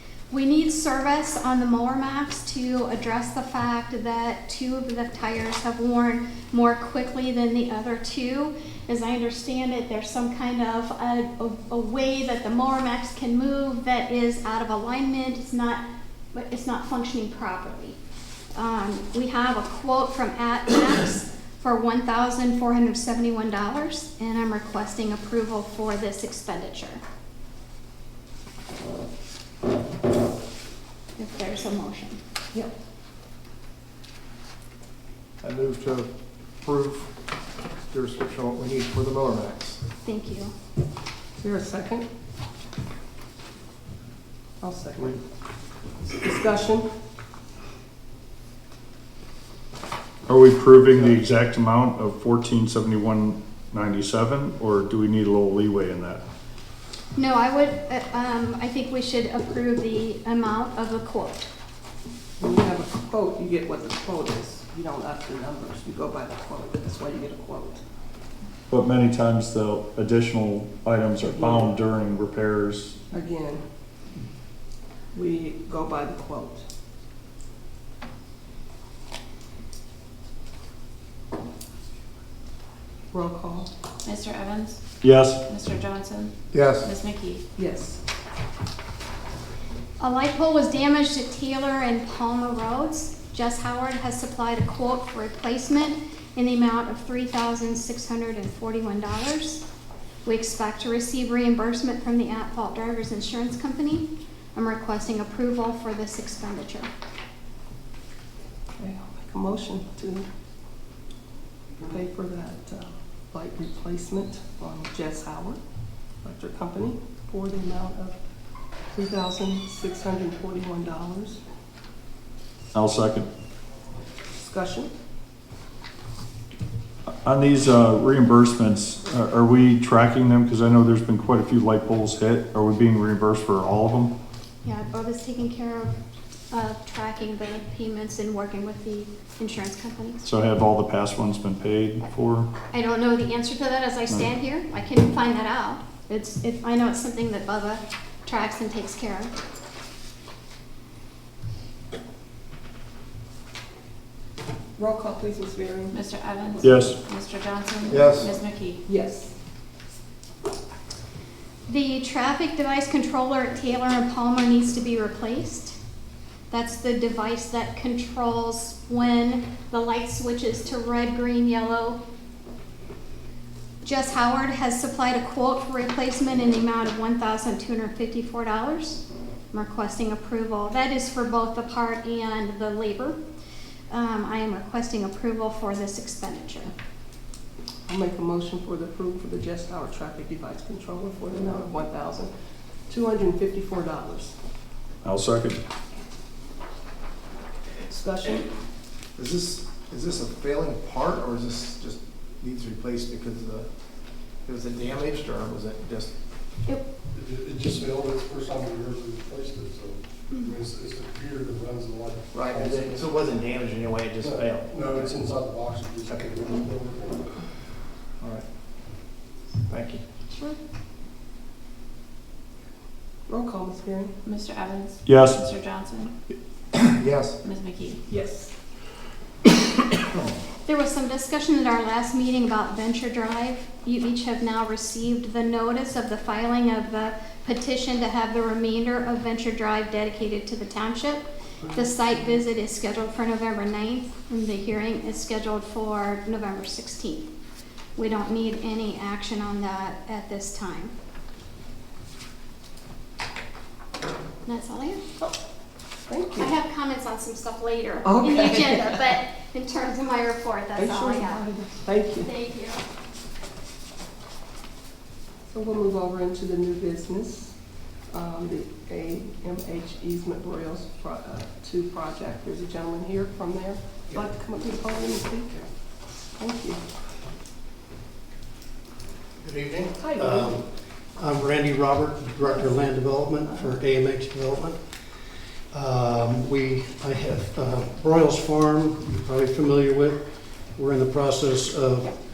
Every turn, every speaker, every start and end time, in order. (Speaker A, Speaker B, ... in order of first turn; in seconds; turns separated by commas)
Speaker A: 0.3-18.0, Speaker A: 18.5-27.0, Speaker A: 31.2-32.2, Speaker B: 35.4-36.1, Speaker B: 36.6-37.1, Speaker B: 37.9-39.8, Speaker A: 40.0-40.5, Speaker C: 41.4-42.1, Speaker C: 44.6-45.2, Speaker C: 46.0-46.9, Speaker D: 50.3-56.2, Speaker A: 57.2-61.5, Speaker C: 62.4-67.8, Speaker D: 68.7-73.0, Speaker C: 73.1-73.6, Speaker C: 75.1-76.7, Speaker C: 83.1-83.7, Speaker E: 84.0-84.8, Speaker D: 85.0-85.4, Speaker E: 85.5-87.4, Speaker F: 86.5-86.8, Speaker C: 87.6-88.0, Speaker A: 90.0-99.6, Speaker A: 100.2-106.9, Speaker C: 108.8-110.3, Speaker C: 111.9-115.6, Speaker C: 116.2-118.2, Speaker C: 118.9-121.4, Speaker D: 122.7-123.3, Speaker C: 124.3-124.9, Speaker D: 127.2-134.1, Speaker A: 134.6-135.9, Speaker A: 136.5-140.2, Speaker D: 140.2-142.5, Speaker A: 142.7-149.3, Speaker C: 154.8-156.0, Speaker E: 155.9-158.8, Speaker D: 156.6-157.0, Speaker B: 157.9-158.3, Speaker C: 158.9-159.3, Speaker A: 161.7-165.8, Speaker A: 166.5-172.0, Speaker A: 173.8-183.2, Speaker A: 183.9-186.7, Speaker C: 187.9-192.3, Speaker C: 192.9-194.3, Speaker D: 195.0-195.6, Speaker C: 197.9-198.5, Speaker B: 199.2-203.7, Speaker B: 204.5-206.1, Speaker G: 207.1-213.1, Speaker B: 212.3-215.3, Speaker G: 214.2-217.3, Speaker B: 218.2-218.4, Speaker B: 219.7-220.0, Speaker C: 223.3-224.2, Speaker E: 224.2-226.1, Speaker D: 225.1-225.4, Speaker B: 226.7-227.4, Speaker E: 227.4-228.0, Speaker C: 228.1-228.5, Speaker A: 230.7-247.3, Speaker A: 248.0-250.9, Speaker A: 254.5-255.1, Speaker C: 256.1-256.5, Speaker A: 256.4-261.5, Speaker C: 258.0-258.9, Speaker C: 260.8-262.3, Speaker A: 262.2-262.8, Speaker C: 265.5-267.5, Speaker C: 268.1-275.7, Speaker C: 276.4-276.8, Speaker F: 279.4-284.8, Speaker C: 280.0-280.5, Speaker F: 285.7-290.2, Speaker F: 290.8-292.2